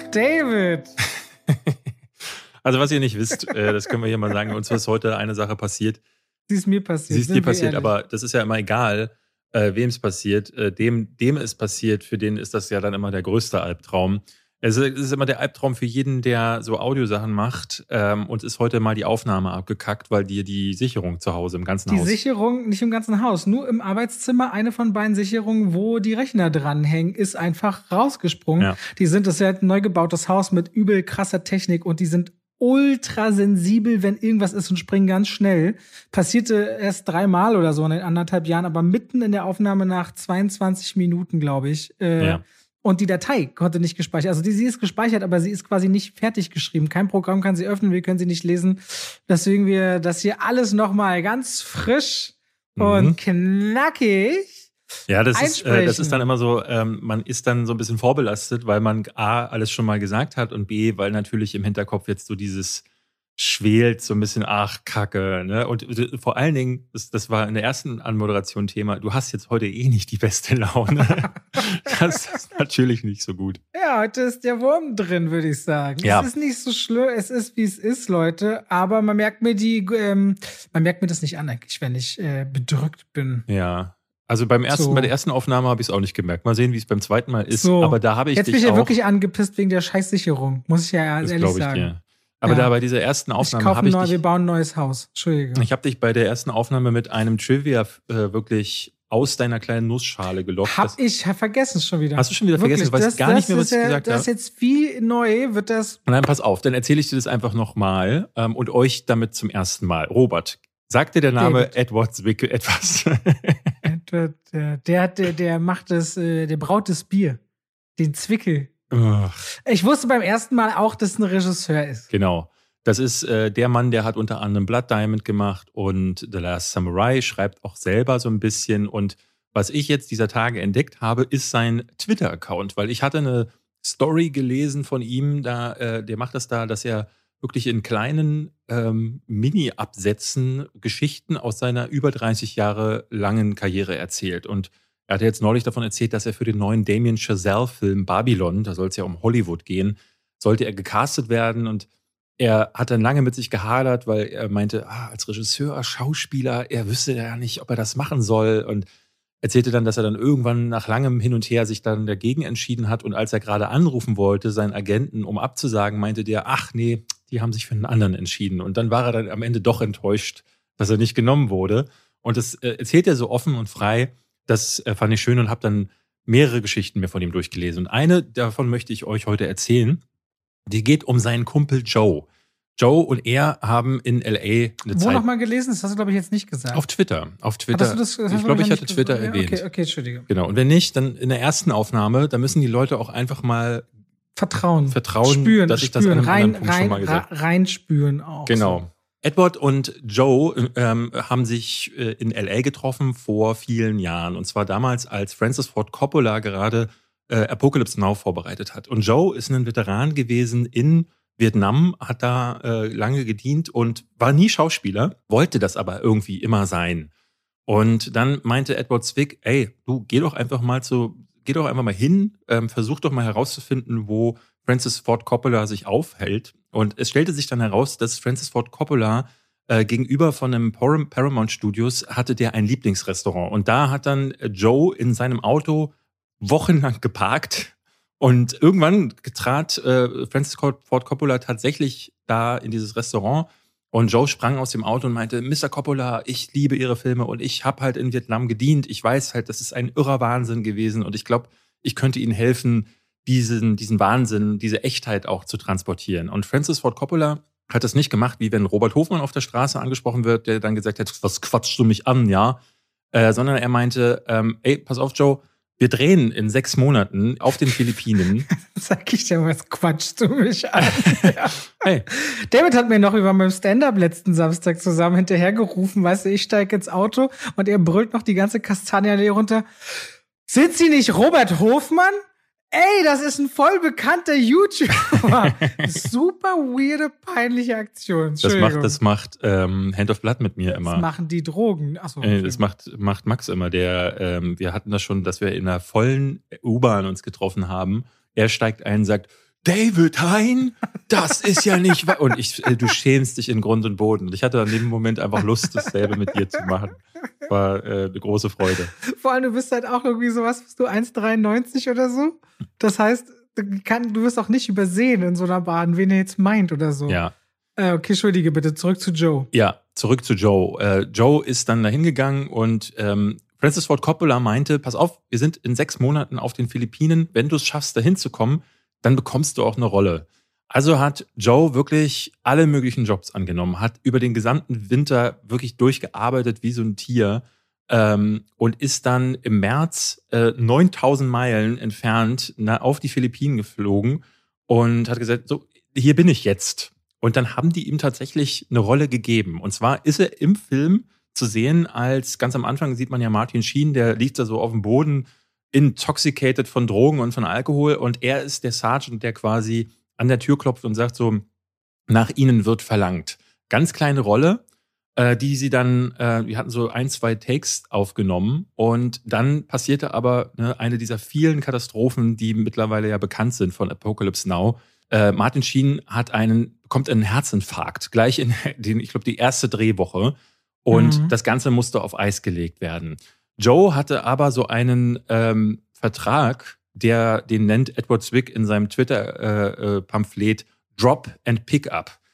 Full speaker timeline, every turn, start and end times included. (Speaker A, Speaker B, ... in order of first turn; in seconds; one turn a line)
Speaker A: 0.1-1.0
Speaker B: 1.5-6.0
Speaker A: 6.5-7.9
Speaker B: 7.1-22.2
Speaker A: 21.9-54.7
Speaker B: 52.8-53.2
Speaker B: 55.1-62.8
Speaker A: 55.3-56.3
Speaker B: 63.4-73.6
Speaker A: 73.7-83.5
Speaker B: 76.0-76.3
Speaker B: 83.5-88.9
Speaker A: 84.7-85.1
Speaker A: 87.5-91.9
Speaker B: 91.2-94.2
Speaker A: 93.4-95.7
Speaker B: 95.5-101.0
Speaker A: 100.6-106.0
Speaker B: 102.2-104.3
Speaker B: 106.1-113.7
Speaker A: 111.4-111.7
Speaker A: 113.8-117.4
Speaker A: 118.0-118.7
Speaker B: 118.9-119.4
Speaker A: 119.7-122.1
Speaker B: 122.1-151.9
Speaker B: 152.4-158.9
Speaker B: 159.4-180.0
Speaker B: 180.7-182.3
Speaker B: 182.8-185.2
Speaker A: 184.9-186.8
Speaker B: 186.7-189.6
Speaker A: 187.7-190.3
Speaker B: 190.3-193.8
Speaker A: 194.4-198.8
Speaker B: 194.9-197.3
Speaker B: 198.5-217.1
Speaker B: 217.7-262.6
Speaker B: 263.1-268.5
Speaker A: 268.5-271.6
Speaker B: 270.8-272.1
Speaker A: 272.1-282.2
Speaker A: 282.7-289.0
Speaker B: 285.1-286.0
Speaker B: 288.4-291.1
Speaker A: 290.8-292.6
Speaker B: 292.2-308.9
Speaker A: 309.0-317.2
Speaker B: 317.1-317.3
Speaker A: 317.8-319.5
Speaker B: 319.5-361.4
Speaker B: 362.1-364.6
Speaker B: 365.2-392.2
Speaker A: 380.9-381.3